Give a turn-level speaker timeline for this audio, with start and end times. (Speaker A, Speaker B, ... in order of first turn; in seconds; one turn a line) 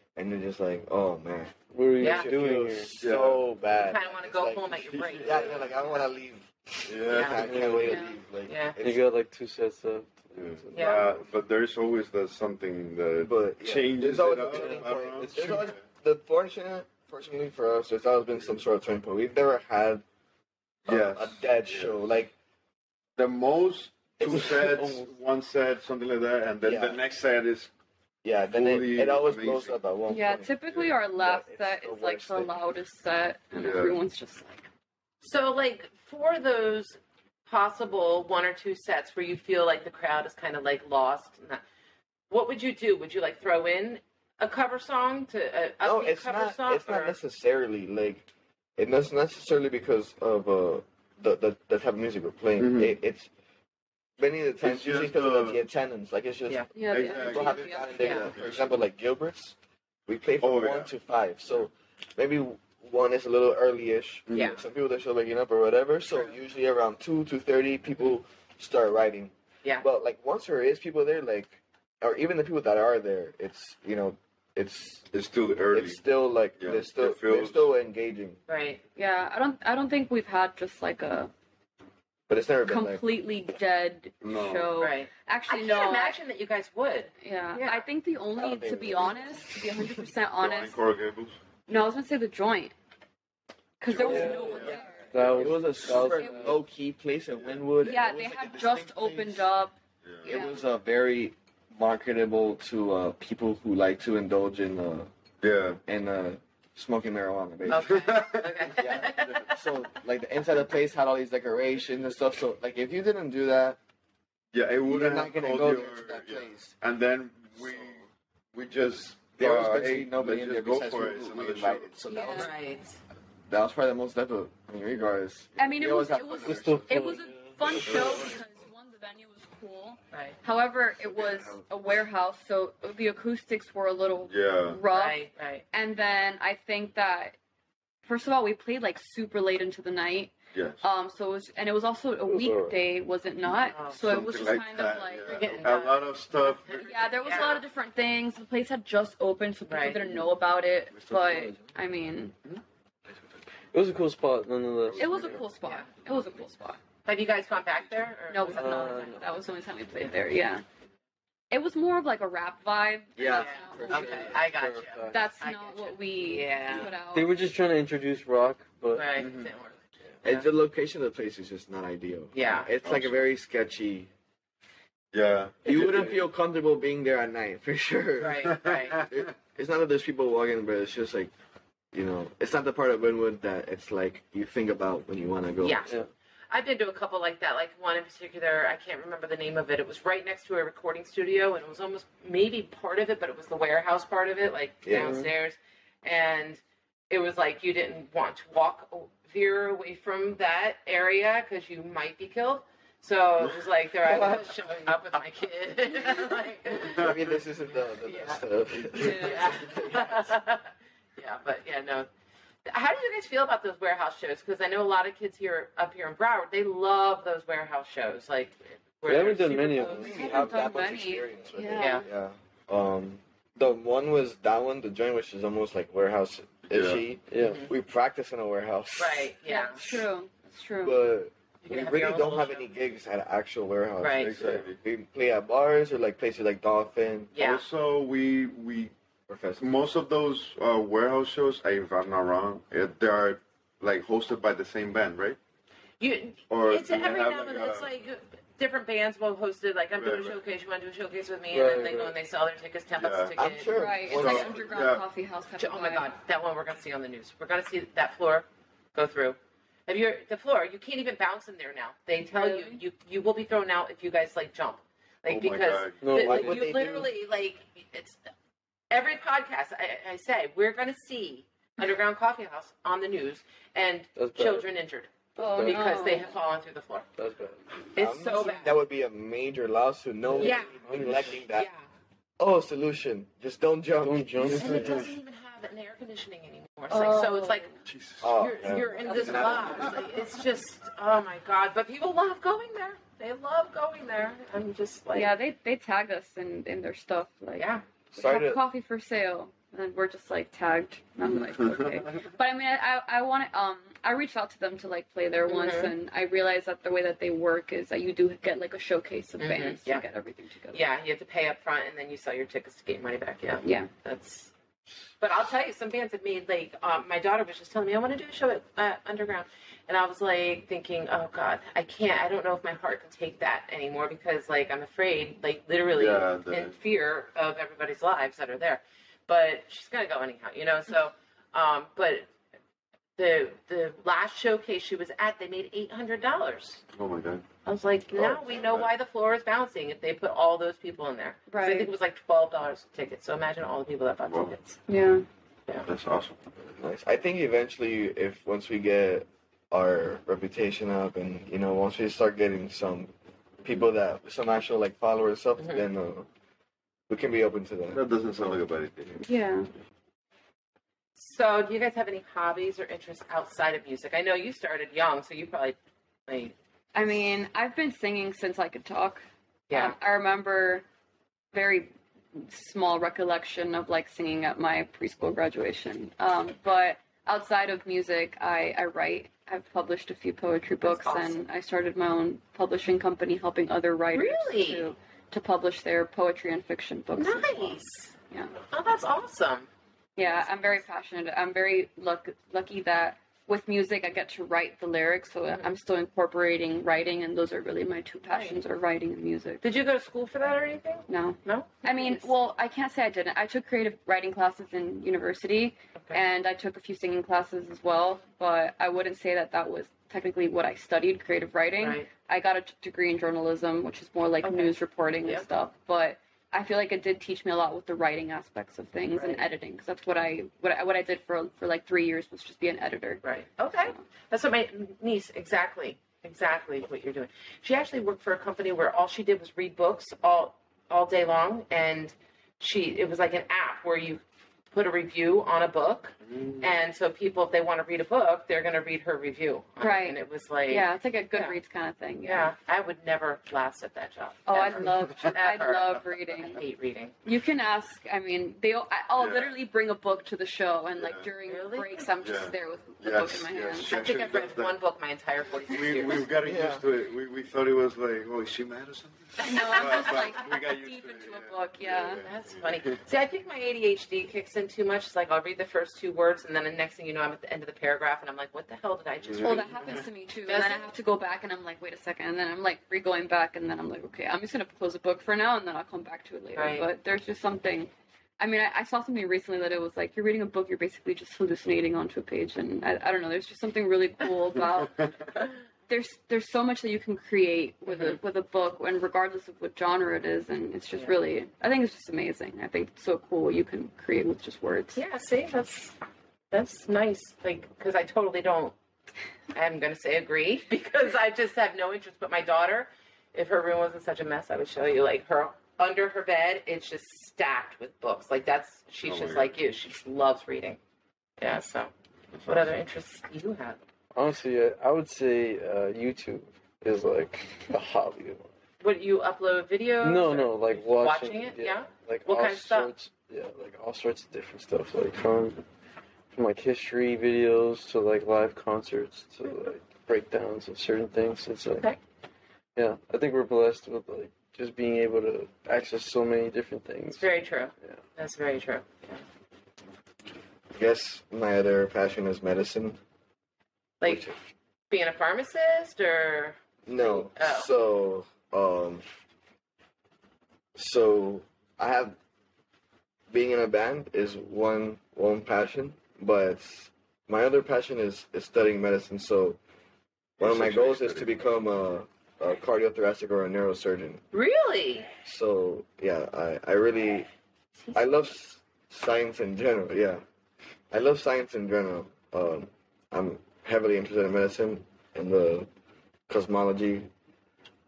Speaker A: 0.1-9.0
Speaker B: 1.7-3.0
Speaker C: 2.0-2.3
Speaker D: 3.0-3.4
Speaker C: 3.8-5.9
Speaker D: 4.9-5.7
Speaker D: 6.8-7.7
Speaker C: 7.1-7.5
Speaker B: 7.4-8.0
Speaker E: 7.8-8.1
Speaker C: 8.4-8.8
Speaker B: 8.8-11.1
Speaker D: 10.3-15.8
Speaker C: 10.7-11.1
Speaker A: 13.2-20.0
Speaker B: 14.5-15.7
Speaker A: 20.9-22.3
Speaker D: 20.9-22.0
Speaker D: 23.2-27.7
Speaker A: 24.2-25.0
Speaker A: 26.6-27.0
Speaker A: 28.2-32.5
Speaker D: 28.5-29.8
Speaker E: 30.1-34.6
Speaker D: 33.5-34.0
Speaker C: 35.2-41.6
Speaker C: 42.3-47.2
Speaker A: 45.8-53.3
Speaker D: 52.6-53.0
Speaker A: 54.2-59.5
Speaker D: 54.6-55.6
Speaker E: 56.7-58.3
Speaker D: 56.9-58.8
Speaker C: 57.9-58.3
Speaker A: 60.1-75.1
Speaker D: 60.4-60.9
Speaker D: 64.3-64.6
Speaker C: 64.3-64.6
Speaker D: 75.1-76.0
Speaker A: 75.7-78.4
Speaker D: 76.6-77.7
Speaker C: 78.5-78.8
Speaker E: 79.0-81.3
Speaker A: 82.3-83.0
Speaker E: 82.7-86.2
Speaker D: 84.2-84.7
Speaker C: 84.8-87.8
Speaker E: 87.2-90.8
Speaker A: 88.4-89.8
Speaker D: 90.4-91.4
Speaker E: 91.7-92.7
Speaker E: 93.8-95.4
Speaker D: 93.9-94.8
Speaker B: 94.0-96.6
Speaker A: 94.0-99.5
Speaker E: 96.0-96.6
Speaker E: 97.8-99.7
Speaker D: 100.0-100.3
Speaker A: 100.2-105.1
Speaker E: 100.2-100.6
Speaker D: 105.4-105.8
Speaker A: 105.9-108.0
Speaker D: 107.7-109.5
Speaker C: 107.7-109.5
Speaker A: 108.8-113.8
Speaker D: 114.5-122.0
Speaker A: 114.8-116.7
Speaker A: 119.4-122.5
Speaker E: 122.1-122.5
Speaker C: 122.1-123.0
Speaker A: 123.5-127.2
Speaker E: 125.6-137.3
Speaker B: 126.4-127.6
Speaker A: 127.8-128.2
Speaker C: 130.1-130.4
Speaker A: 131.0-131.6
Speaker D: 134.3-134.8
Speaker C: 134.9-135.6
Speaker E: 138.0-145.7
Speaker D: 140.5-140.8
Speaker B: 142.2-142.8
Speaker C: 143.7-144.3
Speaker D: 143.9-147.4
Speaker C: 145.2-146.1
Speaker C: 146.7-147.6
Speaker E: 146.7-152.3
Speaker C: 149.7-150.1
Speaker B: 153.7-155.4
Speaker E: 154.9-156.8
Speaker C: 155.6-155.9
Speaker C: 157.0-159.3
Speaker E: 158.3-160.6
Speaker B: 158.5-159.2
Speaker E: 161.5-164.4
Speaker A: 163.2-164.5
Speaker C: 163.2-166.9
Speaker B: 164.4-165.3
Speaker E: 165.1-167.5
Speaker B: 167.1-169.2
Speaker C: 168.9-170.5
Speaker D: 169.2-169.5
Speaker A: 170.2-174.1
Speaker C: 172.3-172.7
Speaker D: 172.8-173.2
Speaker D: 175.1-175.9
Speaker A: 175.6-181.3
Speaker B: 175.7-176.2
Speaker C: 178.2-179.0
Speaker D: 178.6-179.2
Speaker A: 181.9-185.9
Speaker C: 185.6-185.9
Speaker C: 186.5-207.1
Speaker A: 194.8-195.2
Speaker B: 194.9-195.3
Speaker A: 204.1-204.4
Speaker A: 206.9-210.3
Speaker C: 208.0-208.4
Speaker C: 208.9-212.1
Speaker C: 212.7-220.9
Speaker B: 219.1-220.3
Speaker A: 219.8-230.0
Speaker E: 220.0-222.1
Speaker C: 221.7-222.1
Speaker D: 226.7-227.0
Speaker B: 227.3-227.7
Speaker C: 227.3-227.7
Speaker C: 229.0-229.8
Speaker E: 229.4-231.0
Speaker A: 230.8-237.3
Speaker C: 231.6-232.7
Speaker C: 234.0-234.3
Speaker D: 234.2-234.8
Speaker C: 237.3-237.6
Speaker D: 237.4-238.9
Speaker A: 239.3-239.7
Speaker D: 239.6-245.4
Speaker C: 246.0-254.3
Speaker D: 246.5-247.9
Speaker D: 249.9-250.4
Speaker B: 251.5-252.2
Speaker D: 252.9-253.3
Speaker A: 253.3-254.6
Speaker E: 253.7-256.1
Speaker D: 254.1-255.0
Speaker C: 255.6-268.2
Speaker E: 262.3-262.8
Speaker D: 265.3-266.1
Speaker B: 266.0-266.8
Speaker A: 266.1-267.1
Speaker C: 268.9-277.1
Speaker B: 274.1-274.7
Speaker E: 275.4-276.3
Speaker B: 275.5-276.0
Speaker B: 277.2-277.8
Speaker C: 277.9-278.8
Speaker A: 277.9-281.7
Speaker B: 280.3-281.4
Speaker C: 280.4-281.9
Speaker A: 282.4-285.1
Speaker B: 284.0-285.0
Speaker C: 284.4-287.7
Speaker E: 286.9-287.8
Speaker D: 287.9-288.3
Speaker A: 288.2-290.0
Speaker C: 288.4-295.3
Speaker E: 289.1-289.4
Speaker E: 295.1-310.8
Speaker C: 297.6-297.8
Speaker A: 298.1-298.6
Speaker D: 301.6-302.0
Speaker C: 305.5-305.9
Speaker C: 309.4-310.1
Speaker C: 310.7-314.5
Speaker E: 313.6-313.9
Speaker C: 315.2-332.3
Speaker D: 325.9-326.8
Speaker C: 333.2-336.8
Speaker D: 336.9-337.4
Speaker C: 337.6-344.8
Speaker D: 338.1-338.9
Speaker E: 341.5-341.9
Speaker D: 344.3-344.6
Speaker E: 344.9-345.2
Speaker D: 345.9-346.4
Speaker A: 346.8-353.1
Speaker A: 353.6-356.3
Speaker C: 355.6-355.8
Speaker A: 357.1-358.0
Speaker D: 357.9-359.2
Speaker E: 359.2-359.7
Speaker C: 361.1-366.5
Speaker E: 366.9-370.8
Speaker C: 369.7-369.9
Speaker E: 371.5-387.8
Speaker C: 380.8-381.4
Speaker C: 384.1-384.9
Speaker C: 387.1-388.1
Speaker C: 388.7-389.7
Speaker E: 390.1-399.6
Speaker C: 390.2-390.8
Speaker C: 395.5-395.7
Speaker C: 399.6-402.3
Speaker E: 401.1-423.2
Speaker C: 405.9-406.2
Speaker C: 411.8-412.1
Speaker C: 414.4-415.4
Speaker C: 419.1-419.4
Speaker C: 423.2-434.2
Speaker C: 434.7-441.6
Speaker D: 436.3-436.6
Speaker E: 439.8-442.5
Speaker C: 442.2-447.1
Speaker E: 444.5-446.6
Speaker E: 447.2-454.0
Speaker D: 449.1-449.6
Speaker D: 451.0-451.3
Speaker C: 451.4-452.1
Speaker D: 452.2-454.8
Speaker C: 453.9-456.3
Speaker D: 455.6-462.8
Speaker A: 456.4-456.8
Speaker E: 459.4-462.2
Speaker C: 459.5-460.1
Speaker C: 462.2-469.8
Speaker D: 469.2-469.9
Speaker E: 469.4-495.0
Speaker C: 470.4-470.9
Speaker C: 476.5-476.9
Speaker C: 487.9-488.1
Speaker C: 494.9-495.9
Speaker C: 496.5-498.7
Speaker C: 499.5-510.8
Speaker D: 509.0-509.6
Speaker C: 511.4-511.9
Speaker D: 512.4-512.8
Speaker C: 512.4-513.8
Speaker B: 514.1-518.5
Speaker C: 518.8-522.9
Speaker B: 520.0-525.6
Speaker B: 526.3-531.9
Speaker B: 532.8-537.3
Speaker C: 537.1-539.2
Speaker A: 540.7-543.0
Speaker C: 544.0-544.3
Speaker A: 544.0-544.4
Speaker C: 544.9-547.7
Speaker A: 546.9-549.0
Speaker A: 550.7-552.2
Speaker A: 553.3-559.6
Speaker D: 560.4-561.4
Speaker A: 560.4-564.2
Speaker C: 564.3-565.1
Speaker A: 565.2-567.3
Speaker C: 567.8-568.1
Speaker A: 567.9-570.2
Speaker A: 570.9-575.7
Speaker A: 576.3-577.1